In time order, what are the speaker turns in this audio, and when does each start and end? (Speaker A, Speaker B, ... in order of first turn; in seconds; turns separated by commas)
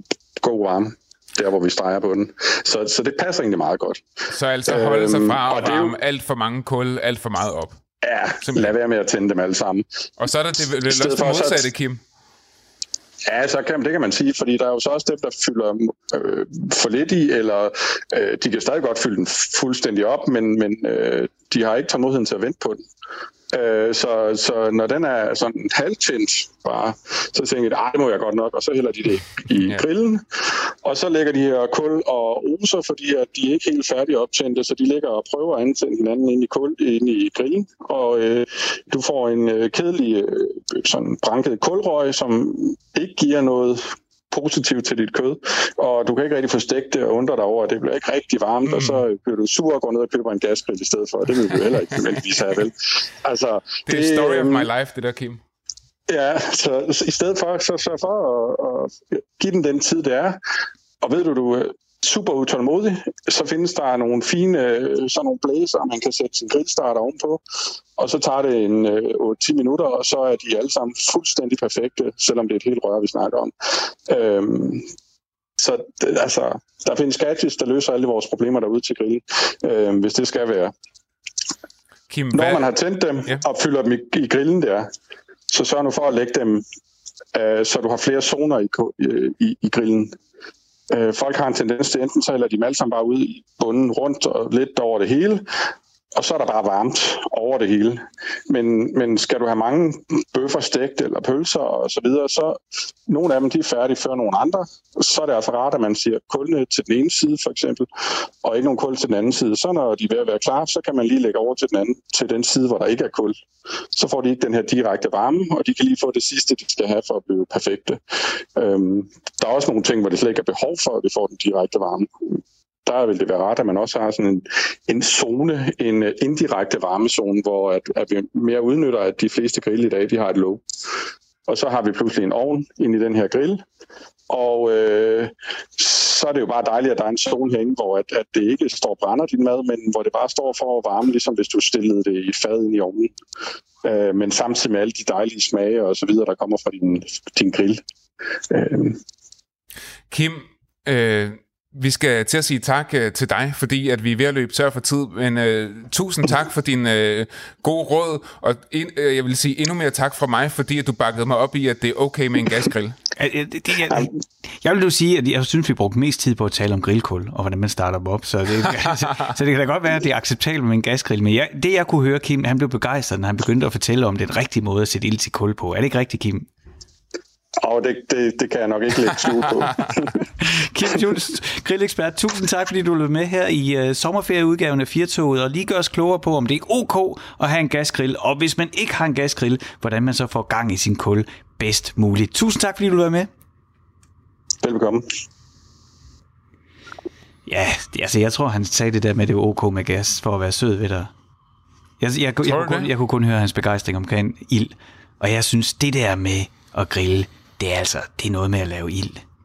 Speaker A: 0.4-4.0, Speaker B: 4.3-7.8, Speaker A: 4.7-6.0, Speaker A: 8.0-9.8, Speaker B: 8.4-8.7, Speaker B: 10.2-12.0, Speaker A: 10.9-11.7, Speaker A: 13.3-22.8, Speaker A: 23.5-54.7, Speaker B: 48.7-49.0, Speaker B: 53.9-55.4, Speaker A: 56.1-60.4, Speaker A: 61.0-67.4, Speaker A: 68.0-74.9, Speaker A: 75.6-80.7, Speaker B: 82.1-82.7, Speaker A: 82.3-84.9, Speaker A: 85.5-86.6, Speaker A: 87.3-90.2, Speaker A: 90.9-95.4, Speaker A: 96.2-113.4, Speaker A: 113.9-118.0, Speaker A: 118.5-130.6, Speaker A: 131.5-133.7, Speaker A: 134.3-143.1, Speaker A: 143.8-147.8, Speaker A: 148.5-149.0, Speaker B: 150.1-163.0, Speaker C: 163.2-176.5, Speaker A: 177.6-180.1, Speaker C: 180.4-193.3, Speaker A: 194.6-195.1, Speaker C: 197.5-201.1, Speaker C: 202.0-209.2, Speaker B: 202.4-202.9